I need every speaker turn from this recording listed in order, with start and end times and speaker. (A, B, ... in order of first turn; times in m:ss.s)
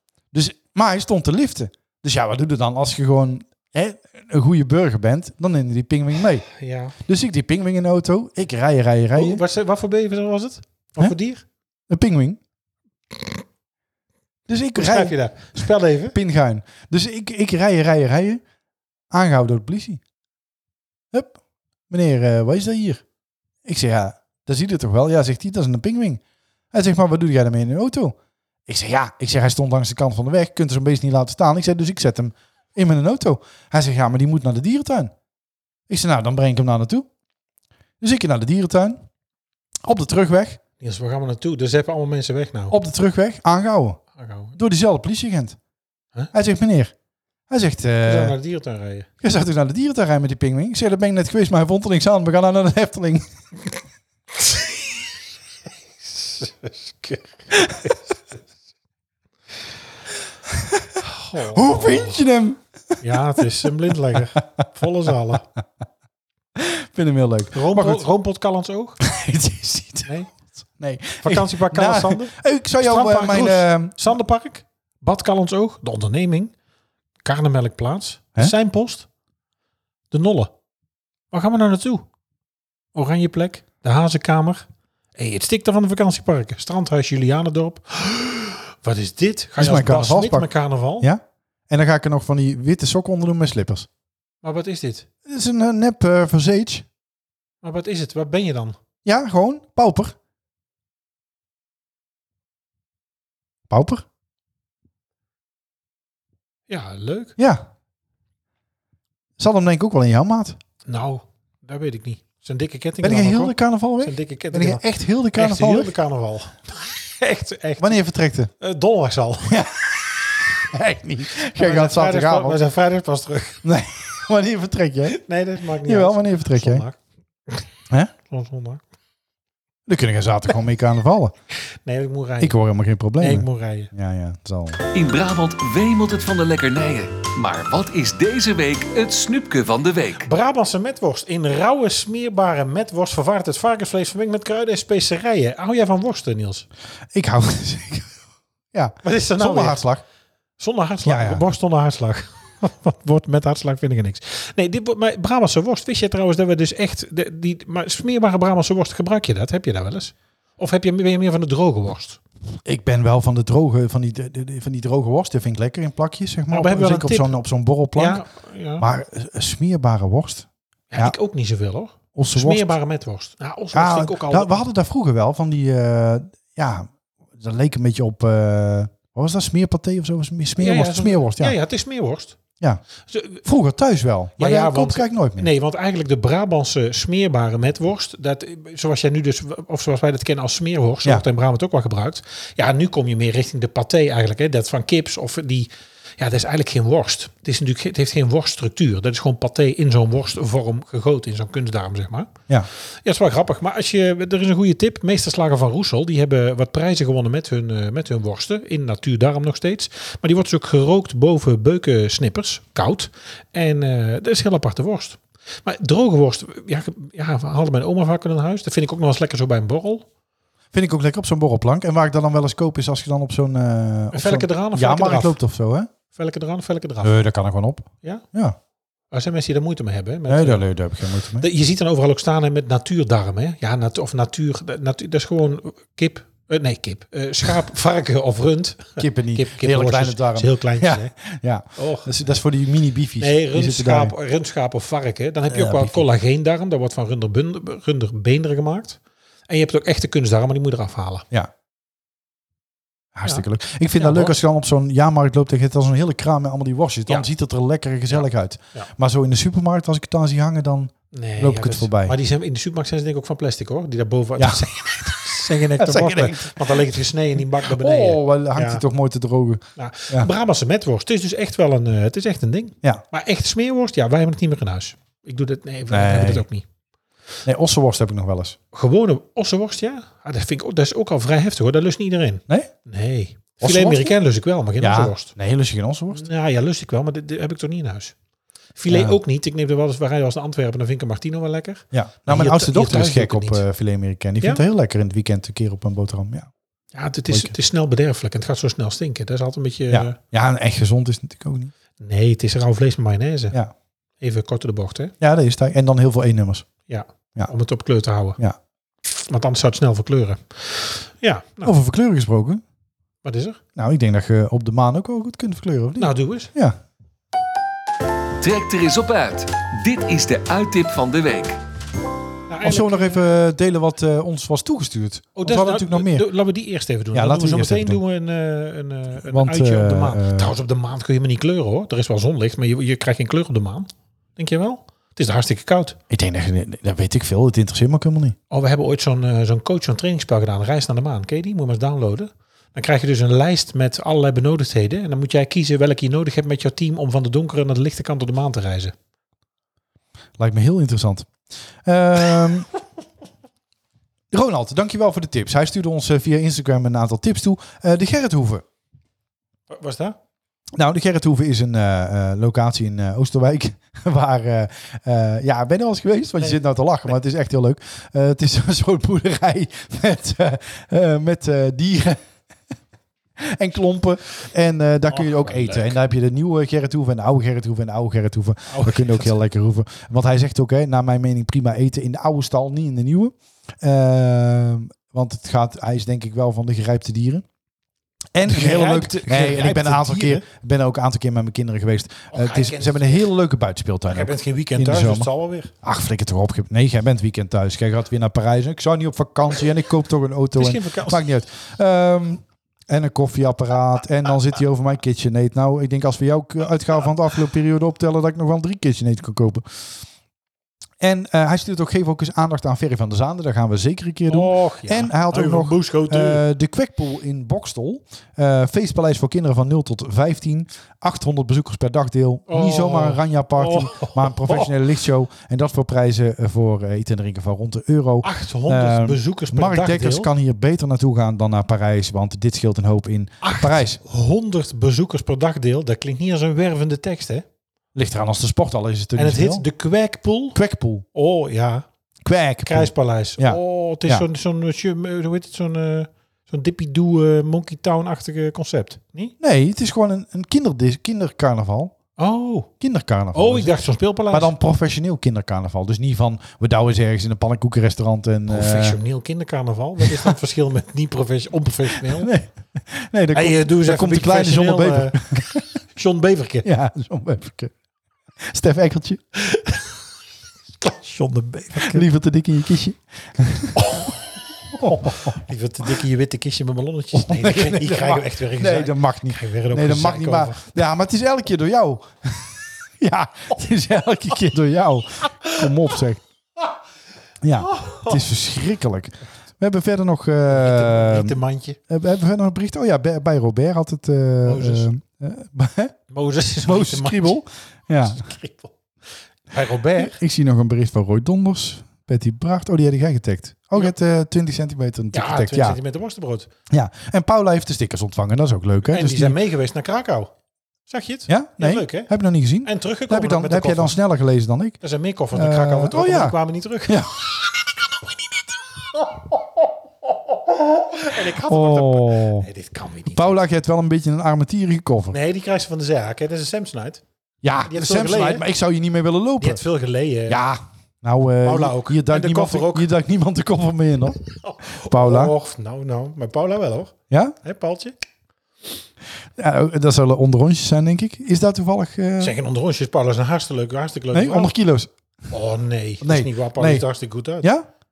0:00.3-0:09.4 A
0:06.6-0:06.9 B
0:09.1-0:11.4 B
0:11.9-0:12.4 A
0:14.5-0:18.4 A
0:14.7-0:16.2 B
0:19.1-0:20.0 A
0:21.1-0:21.4 A
0:21.9-0:23.0 A
0:23.6-0:26.2 A
0:26.7-0:28.2 A
0:28.7-0:35.1 A
0:35.9-0:37.1 A
0:38.0-0:39.0 A
0:39.8-0:40.6 A
0:40.8-0:42.8 B
0:42.7-0:44.0 A
0:44.2-0:44.6 B
0:44.5-0:45.6 A
0:46.3-0:46.9 A
0:47.5-0:48.4 A
0:48.0-0:49.1 B
0:49.2-0:53.3 A
0:54.4-0:54.7 B
0:56.0-0:58.0 B
0:57.5-0:57.9 A
1:00.5-1:01.0 A
1:01.0-1:02.2 B
1:01.5-1:04.6 A
1:03.0-1:05.4 B
1:06.6-1:08.0 A
1:07.5-1:09.0 B
1:09.0-1:14.1 A
1:10.0-1:10.3 B
1:11.2-1:16.5 B
1:17.2-1:19.0 B
1:20.1-1:20.5 B
1:21.3-1:22.1 B
1:22.9-1:31.1 B
1:29.6-1:30.5 A
1:31.0-1:33.9 A
1:34.4-1:35.0 B
1:35.2-1:36.8 A
1:37.6-1:38.8 B
1:39.0-1:40.1 A
1:43.7-1:44.0 A
1:46.7-1:47.4 B
1:47.4-1:47.6 A
1:49.4-1:50.6 A
1:50.9-1:54.8 B
1:53.0-1:55.9 A
1:55.3-1:58.0 B
1:57.8-1:58.5 A
1:58.6-1:59.6 B
1:59.5-2:02.6 A
2:01.6-2:03.6 B
2:03.6-2:05.2 A
2:05.1-2:07.6 B
2:05.8-2:06.8 A
2:08.2-2:08.8 B
2:09.8-2:11.3 A
2:11.8-2:12.6 B
2:12.4-2:14.8 A
2:13.2-2:13.9 B
2:14.9-2:20.3 C
2:20.2-2:26.7 B
2:27.1-2:28.2 A
2:28.7-2:30.0 A
2:29.0-2:29.8 B
2:30.6-2:42.2 B
2:31.0-2:31.4 A
2:42.6-2:48.2 A
2:46.5-2:47.4 B
2:48.0-2:48.8 B
2:48.8-2:51.1 A
2:50.9-2:54.6 B
2:52.1-2:52.7 A
2:53.7-3:01.6 A
3:00.6-3:02.4 B
3:03.1-3:03.4 B
3:03.4-3:05.5 A
3:04.4-3:22.3 B
3:23.0-3:40.0 B
3:40.7-3:45.9 A
3:44.1-3:45.4 B
3:46.1-3:47.2 B
3:47.0-3:48.6 A
3:49.1-3:50.7 B
3:50.3-3:51.5 A
3:51.4-4:01.1 B
3:59.0-4:04.1 A
4:01.8-4:02.1 B
4:03.2-4:11.2 B
4:05.5-4:06.0 A
4:13.1-4:22.2 A
4:13.9-4:14.4 B
4:18.1-4:18.9 B
4:21.1-4:28.8 B
4:24.4-4:24.6 A
4:25.8-4:26.9 A
4:27.6-4:30.3 A
4:29.8-4:36.6 B
4:35.9-4:36.5 A
4:37.4-4:38.6 A
4:38.7-4:45.3 B
4:43.6-4:44.1 A
4:44.8-4:46.2 A
4:46.1-4:48.1 B
4:48.8-4:53.6 B
4:48.9-4:49.2 A
4:51.9-4:56.5 A
4:56.9-5:00.2 B
4:57.3-4:57.5 A
4:59.9-5:01.7 A
5:02.0-5:03.6 B
5:04.2-5:05.1 B
5:05.2-5:06.7 A
5:06.9-5:08.4 B
5:09.1-5:11.7 B
5:11.6-5:12.6 A
5:13.2-5:13.6 B
5:13.8-5:16.8 A
5:16.0-5:16.5 B
5:18.4-5:21.6 C
5:22.5-5:23.2 B
5:22.6-5:26.3 A
5:25.4-5:36.0 B
5:27.1-5:28.0 A
5:29.2-5:30.5 A
5:36.1-5:38.4 A
5:38.5-5:48.9 B
5:50.4-5:51.3 A
5:51.8-5:52.7 A
5:54.3-5:58.6 A
5:59.7-6:00.2 B
6:00.7-6:12.2 A
6:13.4-6:27.4 A
6:15.1-6:16.0 B
6:18.7-6:19.4 B
6:28.3-6:35.3 A
6:28.5-6:30.4 B
6:32.3-6:33.3 B
6:34.1-6:35.7 B
6:35.8-6:49.8 A
6:40.5-6:41.2 B
6:51.0-7:14.0 A
6:54.3-6:56.4 B
7:02.5-7:04.7 B
7:08.2-7:10.3 B
7:13.4-7:17.4 B
7:17.9-7:19.6 A
7:19.2-7:20.6 B
7:20.5-7:21.0 A
7:21.1-7:21.8 B
7:22.2-7:24.2 A
7:22.6-7:29.3 B
7:29.4-7:31.9 A
7:32.2-7:32.7 B
7:32.8-7:33.8 A
7:33.3-7:34.5 B
7:34.3-7:39.0 A
7:38.5-7:42.3 B
7:40.1-7:40.3 A
7:42.0-7:45.6 A
7:43.3-7:46.7 B
7:46.6-7:47.7 A
7:48.4-7:49.2 A
7:49.3-7:50.0 B
7:50.8-7:52.1 B
7:51.7-7:53.8 A
7:53.8-8:00.8 B
7:54.7-7:55.4 A
7:57.1-8:06.2 A
8:07.4-8:11.4 A
8:07.6-8:08.2 B
8:10.5-8:11.8 B
8:11.9-8:16.0 A
8:14.4-8:14.9 B
8:16.1-8:17.4 B
8:16.6-8:18.2 A
8:18.0-8:18.7 B
8:19.5-8:20.2 B
8:20.0-8:25.8 A
8:25.1-8:26.5 B
8:26.7-8:29.4 A
8:28.8-8:30.3 B
8:30.9-8:32.1 B
8:31.3-8:34.8 A
8:32.6-8:34.0 B
8:34.8-8:37.0 B
8:35.3-8:37.2 A
8:38.9-8:39.4 B
8:40.2-8:43.4 B
8:41.4-8:42.5 A
8:43.1-8:45.2 A
8:45.1-8:47.0 B
8:47.4-8:49.6 A
8:47.6-8:48.4 B
8:49.4-8:50.4 B
8:50.3-8:54.2 A
8:51.4-8:52.9 B
8:54.4-8:57.9 B
8:54.7-8:55.3 A
8:59.4-9:02.3 A
9:02.2-9:04.5 B
9:04.1-9:04.9 A
9:05.3-9:07.5 B
9:06.0-9:06.8 A
9:07.4-9:07.7 A